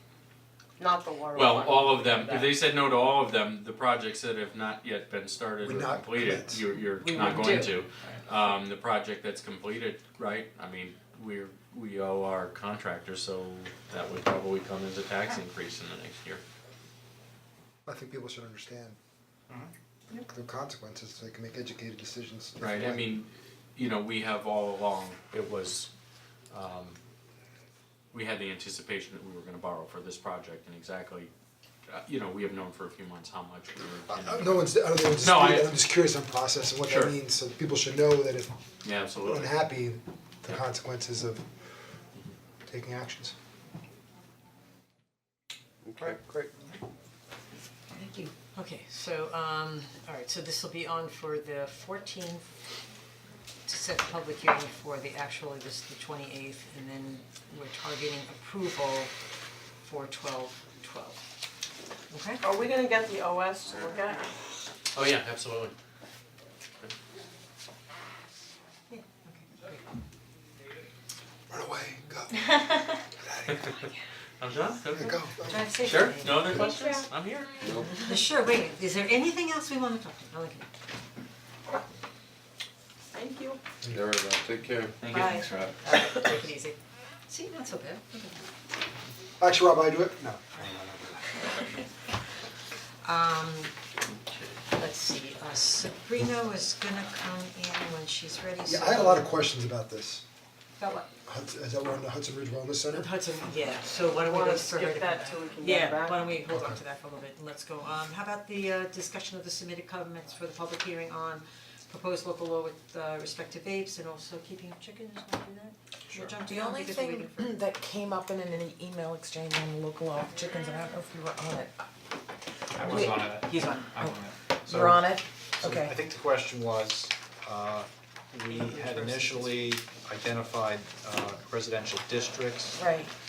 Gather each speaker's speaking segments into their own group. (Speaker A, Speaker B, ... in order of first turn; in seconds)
Speaker A: 0.8-2.6, 62.4-64.4, 76.5-77.1, 83.1-83.6, 104.2-106.3
Speaker B: 1.3-16.4, 22.6-25.9, 26.5-27.0, 28.1-31.3, 31.9-35.8, 36.9-37.1, 38.8-39.7, 64.9-65.8, 74.4-77.7, 85.0-85.8
Speaker C: 5.6-6.7, 17.9-19.0, 20.2-23.1, 34.1-38.6, 39.2-41.5, 42.6-43.4, 46.0-46.5, 71.5-73.9, 74.9-76.1, 89.4-91.6, 98.7-100.2, 101.3-103.1, 106.5-106.8
Speaker D: 7.0-7.8, 48.5-52.5, 53.7-59.1, 59.8-61.2, 62.1-62.4, 68.9-69.8, 75.4-76.6, 77.9-80.7, 85.1-88.4, 93.0-93.7, 94.7-99.3, 100.8-101.1, 102.9-117.5, 123.0-124.0, 128.4-129.7
Speaker E: 45.8-46.2, 77.6-78.1, 83.9-85.0
Speaker F: 47.9-48.3, 116.2-121.7, 122.8-123.3, 124.6-126.0, 132.8-133.1
Speaker G: 122.7-132.8